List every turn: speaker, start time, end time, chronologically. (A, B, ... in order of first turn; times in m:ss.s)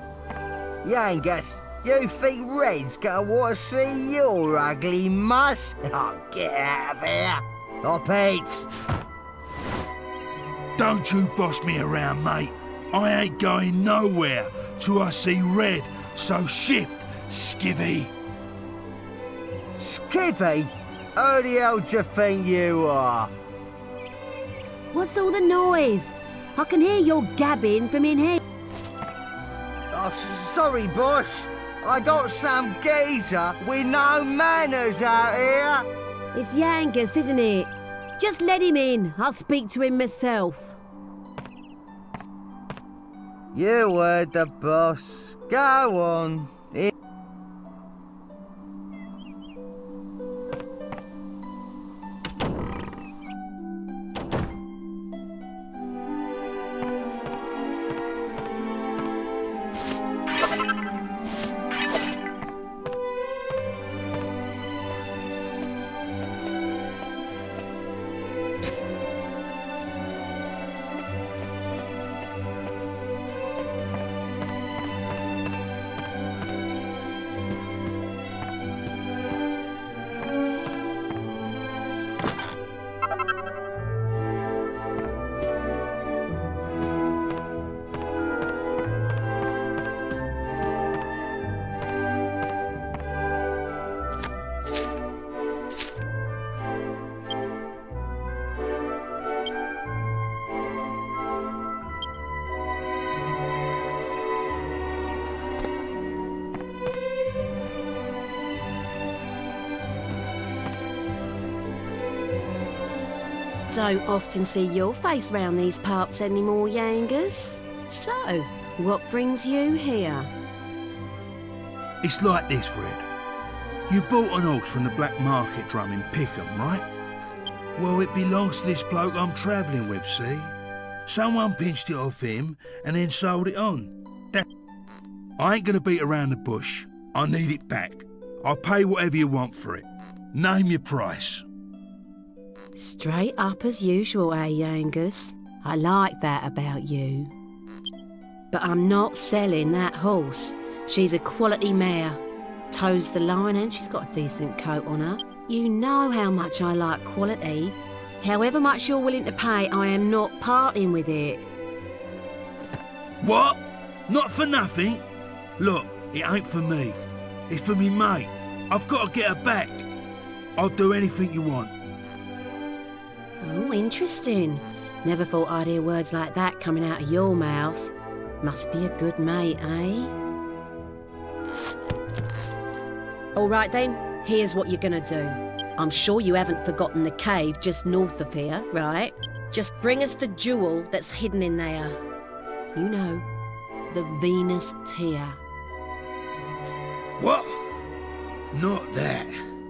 0:00.8-0:08.7 A
0:10.8-0:18.1 B
0:19.8-0:23.3 A
0:24.9-0:28.4 C
0:29.9-0:35.8 A
0:36.3-0:40.8 C
0:43.5-0:46.9 A
1:53.7-2:00.3 C
2:02.0-2:03.1 B
2:03.9-2:06.9 B
2:07.8-2:10.5 B
2:11.0-2:14.4 B
2:15.4-2:21.4 B
2:22.7-2:27.3 C
2:28.5-2:41.4 C
2:43.2-2:45.0 B
2:45.6-2:49.8 B
2:50.6-2:51.7 B
2:53.4-3:00.1 C
3:03.4-3:12.0 C
3:12.7-3:13.2 C
3:13.9-3:15.4 C
3:17.2-3:17.6 B
3:18.5-3:19.4 B